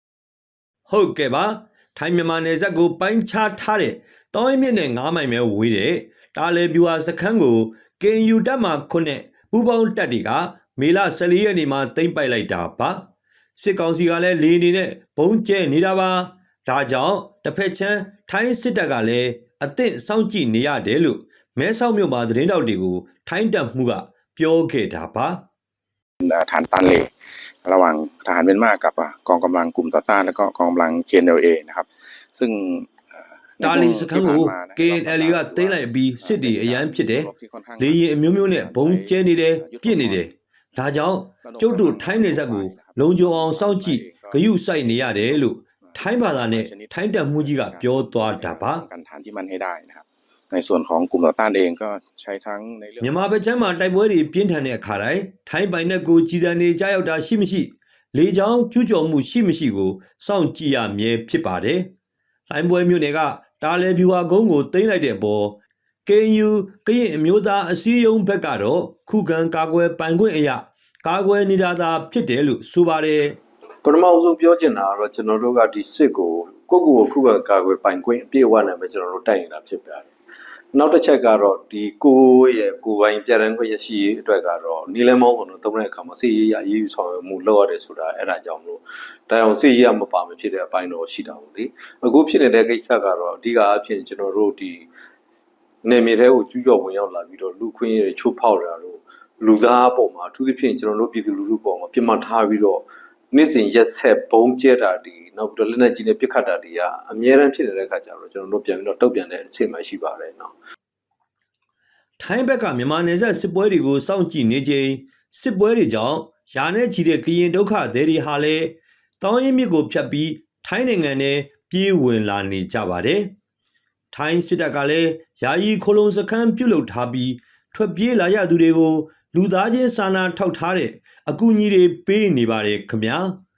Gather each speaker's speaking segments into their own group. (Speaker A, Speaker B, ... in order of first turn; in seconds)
Speaker A: 0.9-13.0, 13.6-25.4, 33.6-48.8, 53.0-61.9, 62.5-73.4, 112.2-123.3, 124.1-133.4
Speaker B: 26.2-27.1, 27.6-40.3, 41.4-53.2
Speaker C: 73.8-80.1, 80.7-94.9, 95.8-110.5